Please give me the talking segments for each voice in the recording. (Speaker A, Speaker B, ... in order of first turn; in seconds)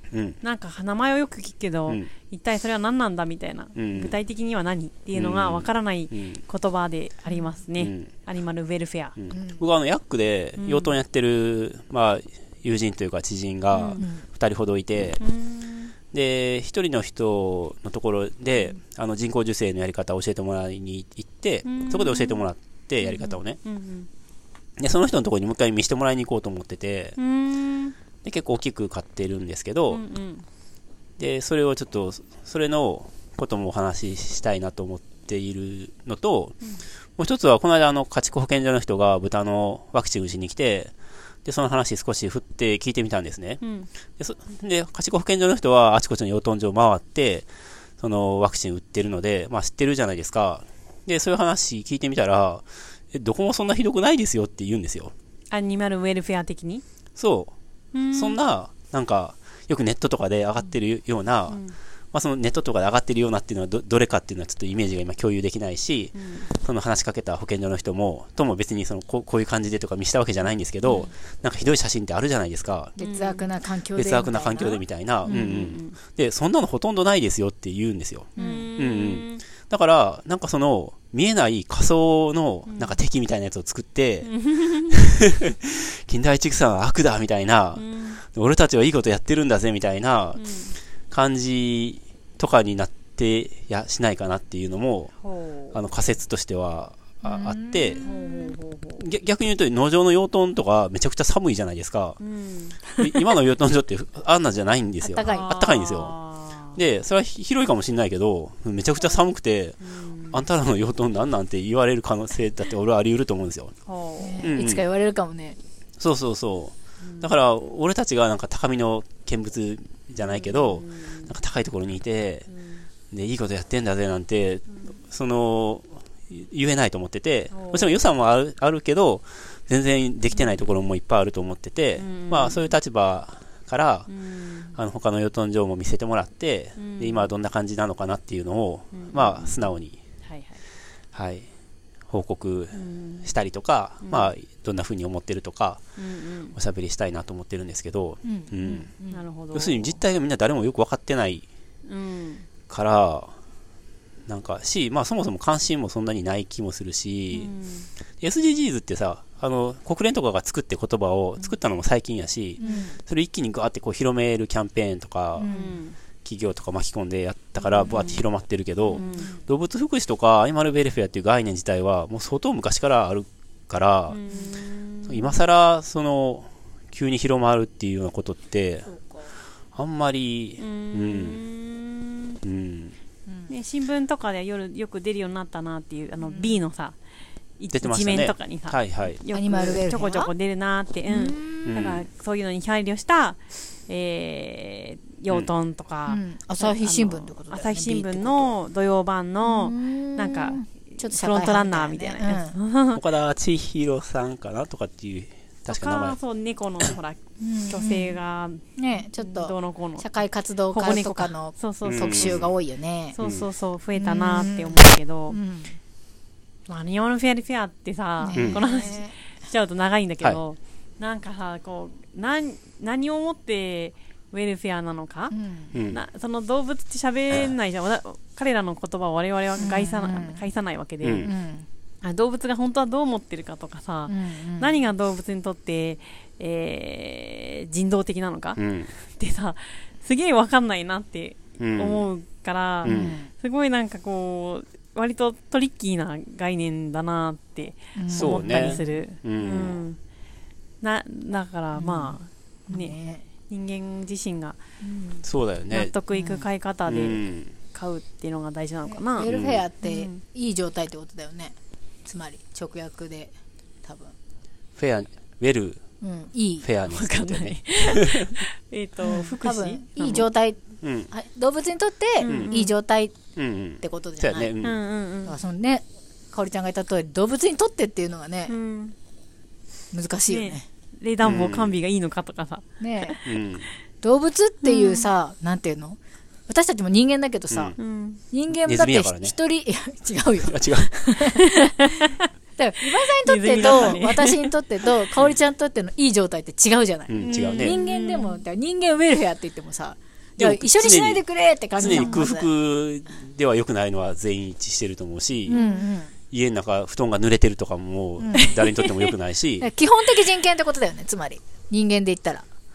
Speaker A: 0.1-0.4, 3.8-4.1, 5.1-6.4, 7.8-8.1, 9.2-15.2, 16.1-23.6, 24.8-27.2, 28.2-30.0, 31.2-36.5, 37.2-40.9, 41.5-43.6, 44.2-47.5, 48.0-55.1, 57.2-57.5, 58.1-61.6, 62.1-73.0, 74.0-84.3, 84.9-90.4, 91.1-95.1, 95.7-98.0, 99.0-102.2, 103.0-106.2, 106.8-113.7, 114.4-114.8, 116.0-122.5, 123.1-134.1, 134.7-140.0, 141.1-141.5, 142.1-145.8, 146.6-148.9, 149.5-151.5, 152.7-153.3, 154.3-157.5, 158.2-165.5, 166.2-174.2, 175.1-178.9, 179.7-181.4, 182.4-183.0, 187.7-189.2, 191.7-192.0, 202.9-206.2, 211.8-212.5, 213.2-213.4, 218.3-218.6, 225.7-226.0, 231.0-231.3, 238.6-238.9, 241.6-242.1, 242.8-243.2, 248.1-249.8, 255.2-255.9, 256.9-257.5, 259.3-259.6, 264.8-265.8, 266.6-268.3, 270.8-271.1, 272.3-272.6, 273.4-274.8, 281.2-281.8, 283.2-283.7, 287.5-287.8, 288.5-289.4, 290.4-290.9, 293.6-293.9, 297.1-297.8, 300.4-301.2, 301.8-305.6, 306.3-309.7
Speaker B: 0.4-9.2, 10.6-11.0, 13.7-14.1, 15.2-15.9, 21.6-22.4, 23.0-24.1, 27.2-27.9, 29.9-30.4, 43.6-43.9, 55.5-56.8, 57.9-58.4, 61.5-61.8, 66.2-66.5, 73.0-73.5, 75.3-76.0, 78.4-79.4, 82.7-83.0, 84.2-85.0, 87.8-88.2, 90.4-90.8, 95.2-95.8, 98.0-99.0, 102.2-103.1, 105.2-106.8, 109.8-110.4, 113.9-114.5, 117.0-117.3, 120.2-121.3, 122.5-122.9, 127.5-128.0, 132.0-132.7, 134.1-134.8, 136.8-137.3, 138.9-139.7, 140.3-140.6, 142.7-143.3, 144.0-144.3, 146.0-146.6, 149.1-150.0, 151.9-152.4, 157.3-157.9, 162.6-162.9, 165.4-166.0, 167.6-168.2, 168.9-169.3, 174.1-175.3, 180.6-182.4, 183.5-187.0, 187.6-203.0, 205.7-208.6, 209.2-210.1, 210.7-212.4, 213.1-215.4, 216.7-225.3, 225.9-231.3, 232.0-250.0, 250.8-254.6, 255.7-259.3, 259.8-260.2, 266.9-270.3, 272.2-272.7, 274.6-275.4, 278.5-278.9, 280.3-283.2, 284.6-285.1, 287.8-288.2, 291.2-292.3, 293.2-294.5, 297.2-298.4, 301.8-302.2, 305.5-305.9, 308.4-309.1
Speaker C: 7.3-7.5, 9.3-9.6, 73.0-74.8, 78.4-78.7, 97.2-98.5, 105.0-105.6, 114.2-115.6, 148.2-149.2, 162.6-163.0, 165.4-165.8, 168.9-169.4, 178.9-179.3, 186.3-186.5, 189.3-190.3, 191.1-191.8, 196.1-198.5, 199.4-202.6, 207.4-208.2, 208.8-213.2, 214.0-215.8, 218.2-219.1, 225.3-225.7, 229.6-230.5, 231.2-231.7, 234.1-234.8, 242.8-243.3, 248.0-249.0, 251.8-252.2, 252.7-253.2, 254.8-255.2, 256.1-256.4, 258.9-263.3, 263.8-264.1, 266.0-266.7, 269.0-273.2, 273.8-274.5, 275.3-278.5, 279.9-280.6, 282.8-283.2, 284.0-287.7, 288.3-302.5, 305.5-306.1, 308.2-308.6, 309.6-312.4